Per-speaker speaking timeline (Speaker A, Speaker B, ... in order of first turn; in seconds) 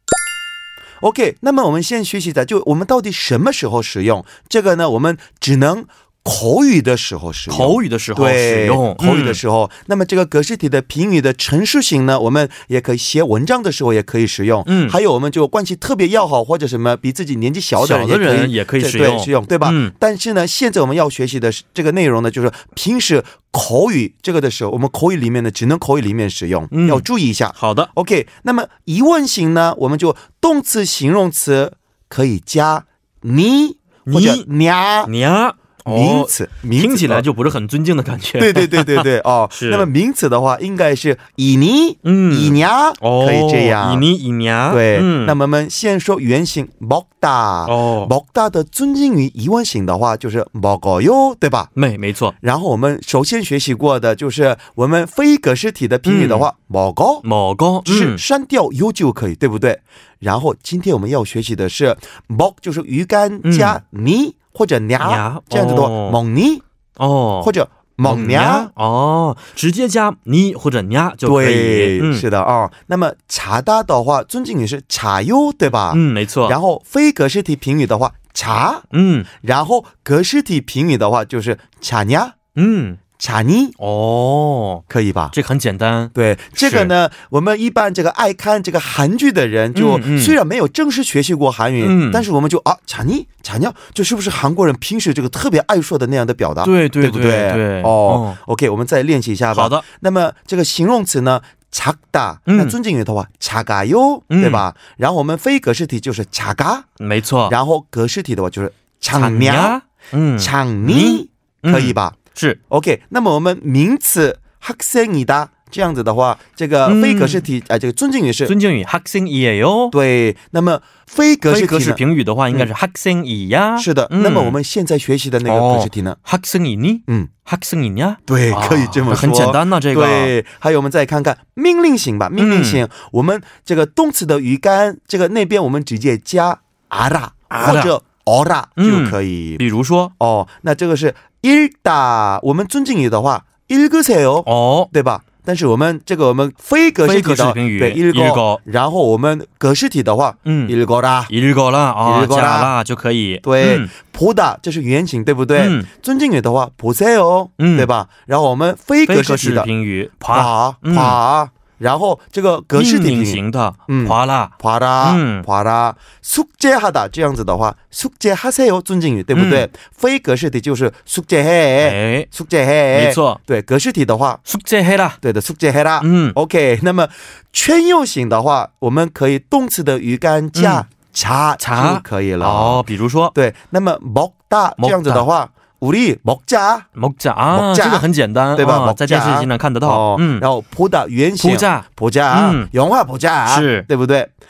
Speaker A: 1.0-35.1, 35.9-37.3, 38.4-44.1, 44.7-51.7, 52.4-57.2, 57.9-66.6, 67.4-68.7, 71.2-78.9, 79.4-82.3, 83.2-83.8, 84.9-85.3, 86.1-106.9, 107.5-109.8, 110.4-112.2, 112.7-118.5, 119.9-122.0, 123.8-126.2, 128.3-139.6, 140.2-151.3, 152.0-152.7, 153.4-159.7, 160.3-174.4, 175.2-186.9, 187.5-194.3
Speaker B: 7.5-9.4, 14.7-15.0, 17.8-19.9, 26.7-27.9, 34.1-34.5, 35.1-39.9, 42.0-45.4, 47.6-48.1, 51.8-52.3, 56.1-56.5, 57.2-58.2, 63.4-63.8, 65.0-66.2, 67.0-67.5, 68.1-72.2, 75.9-76.6, 78.9-79.3, 82.6-83.0, 83.8-86.9, 89.7-90.4, 91.8-92.3, 96.6-98.4, 99.5-99.8, 102.5-102.8, 104.3-104.6, 107.0-107.5, 109.1-112.6, 116.8-117.5, 118.5-119.9, 121.5-124.6, 125.4-130.3, 132.4-132.8, 137.5-137.9, 138.8-140.1, 144.5-144.9, 147.0-148.6, 150.5-150.7, 151.3-153.9, 155.6-155.9, 157.6-157.9, 159.1-161.2, 162.7-165.4, 169.3-169.7, 171.8-172.3, 172.9-173.4, 174.5-175.2, 176.0-176.4, 180.6-180.8, 181.6-183.3, 184.8-185.3, 187.0-190.5, 191.4-192.7, 193.5-193.9